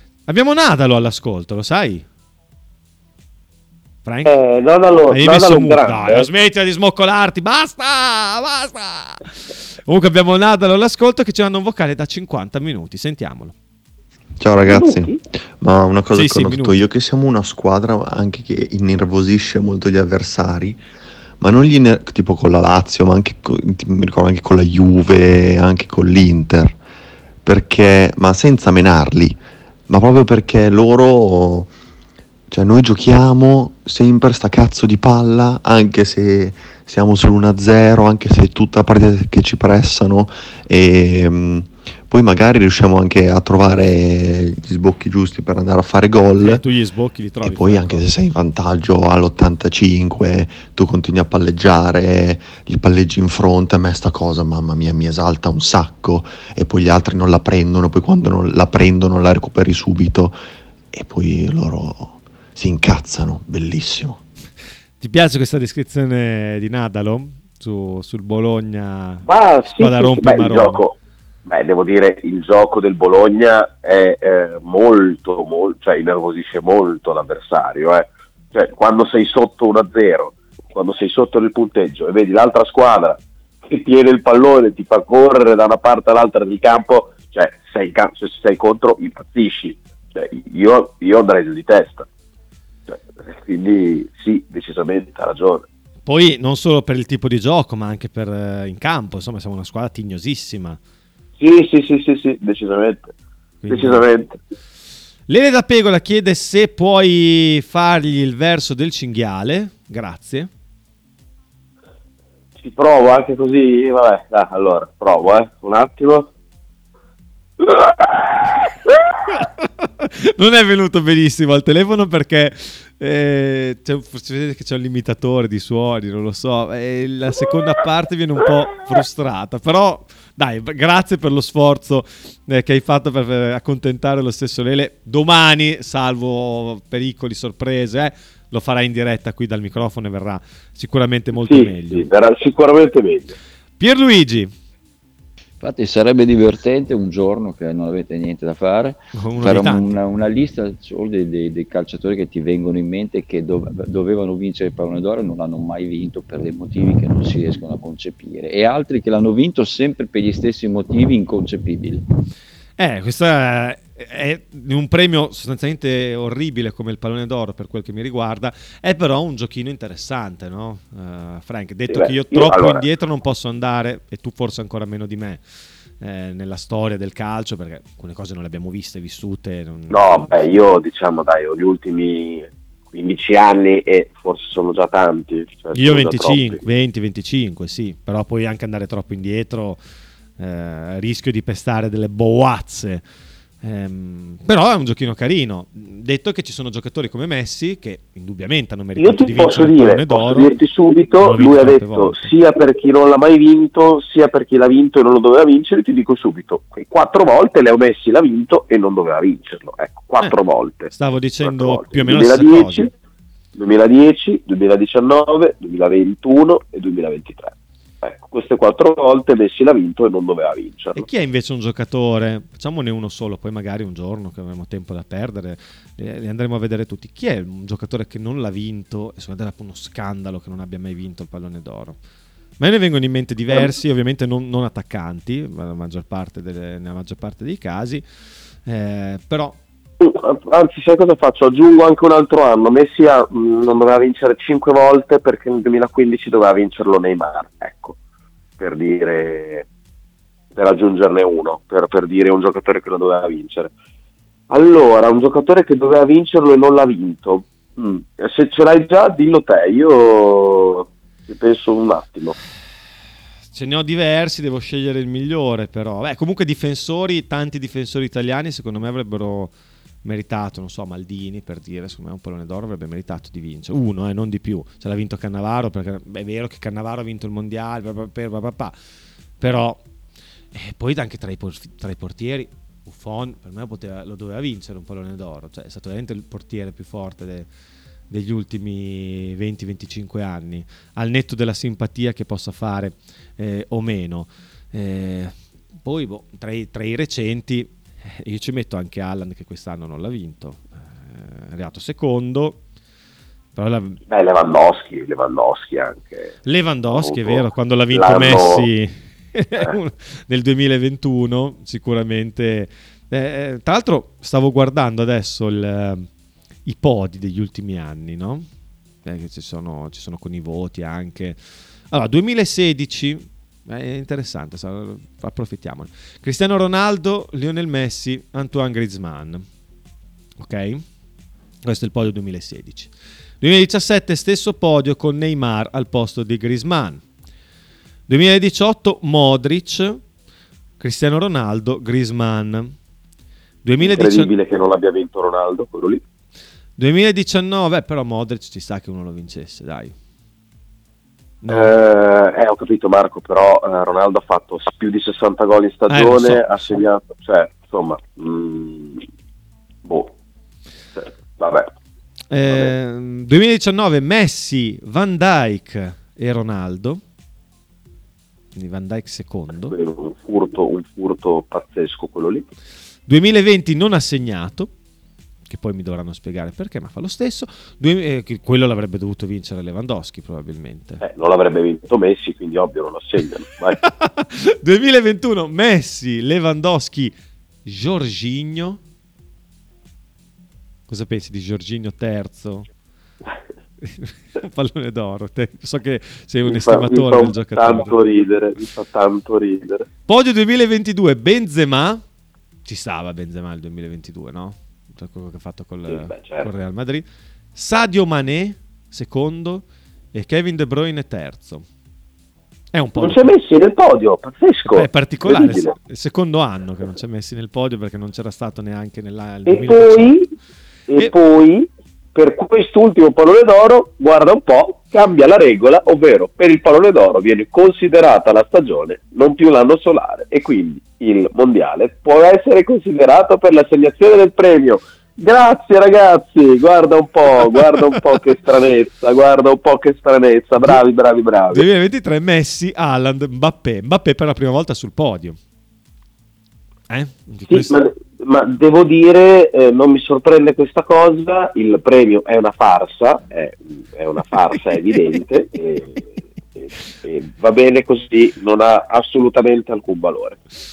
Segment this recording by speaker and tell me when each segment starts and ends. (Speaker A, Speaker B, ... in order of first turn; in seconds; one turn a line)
Speaker A: 0.3-2.0
Speaker A: 4.0-4.3
Speaker B: 4.2-6.3
Speaker A: 5.1-13.5
Speaker C: 14.4-20.8
Speaker B: 14.6-15.2
Speaker A: 16.1-16.8
Speaker C: 21.4-26.8
Speaker C: 27.4-31.7
Speaker C: 32.5-46.6
Speaker A: 46.4-48.1
Speaker C: 47.4-64.2
Speaker A: 65.0-69.2
Speaker B: 69.2-92.1
Speaker A: 69.8-70.8
Speaker B: 92.9-95.7
Speaker A: 96.0-100.8
Speaker B: 101.4-103.1
Speaker A: 103.6-104.0
Speaker B: 103.7-104.4
Speaker A: 105.3-110.5
Speaker B: 112.6-116.3
Speaker B: 117.6-118.4
Speaker A: 119.3-142.1
Speaker B: 141.3-143.3
Speaker A: 143.8-144.5
Speaker D: 145.6-162.1
Speaker A: 149.1-150.0
Speaker A: 162.8-175.4
Speaker B: 171.9-172.8
Speaker A: 176.0-180.4
Speaker B: 179.9-186.6
Speaker A: 185.7-189.8
Speaker A: 190.4-193.0
Speaker A: 193.6-200.5
Speaker B: 199.0-210.9
Speaker A: 201.2-202.3
Speaker A: 210.9-212.9
Speaker B: 211.4-212.9
Speaker B: 213.6-221.1
Speaker A: 220.9-232.0
Speaker A: 232.6-238.0
Speaker A: 238.7-239.6
Speaker B: 240.0-247.9
Speaker B: 248.6-249.7
Speaker B: 250.5-253.7
Speaker B: 254.5-262.4
Speaker A: 263.5-269.5
Speaker A: 270.0-278.7
Speaker A: 279.4-279.8
Speaker A: 280.5-287.5
Speaker A: 288.1-302.6
Speaker A: 303.6-304.0
Speaker B: 304.1-306.3
Speaker A: 306.4-316.1
Speaker B: 306.9-308.7
Speaker A: 316.6-318.5
Speaker A: 319.0-321.4
Speaker A: 321.9-329.4
Speaker A: 330.4-330.8
Speaker A: 331.6-337.0
Speaker A: 338.1-340.0
Speaker A: 340.8-342.7
Speaker A: 343.6-344.3
Speaker B: 343.8-346.0
Speaker A: 346.8-349.9
Speaker A: 351.4-351.7
Speaker B: 351.5-359.0
Speaker A: 355.9-356.7
Speaker B: 359.8-360.1
Speaker B: 360.9-361.7
Speaker A: 362.3-367.0
Speaker A: 368.5-369.8
Speaker B: 369.7-372.4
Speaker A: 373.1-374.7
Speaker A: 375.5-381.0
Speaker B: 381.0-383.8
Speaker A: 383.8-388.8
Speaker A: 390.9-392.7
Speaker A: 393.8-397.9
Speaker B: 396.4-399.9
Speaker A: 400.1-402.0
Speaker A: 402.6-411.6
Speaker B: 405.9-406.5
Speaker A: 412.7-413.3
Speaker B: 413.0-415.7
Speaker A: 414.6-420.2
Speaker B: 419.4-420.3
Speaker B: 420.9-441.6
Speaker A: 437.4-437.7
Speaker A: 441.5-445.4
Speaker A: 446.9-447.7
Speaker B: 447.5-460.4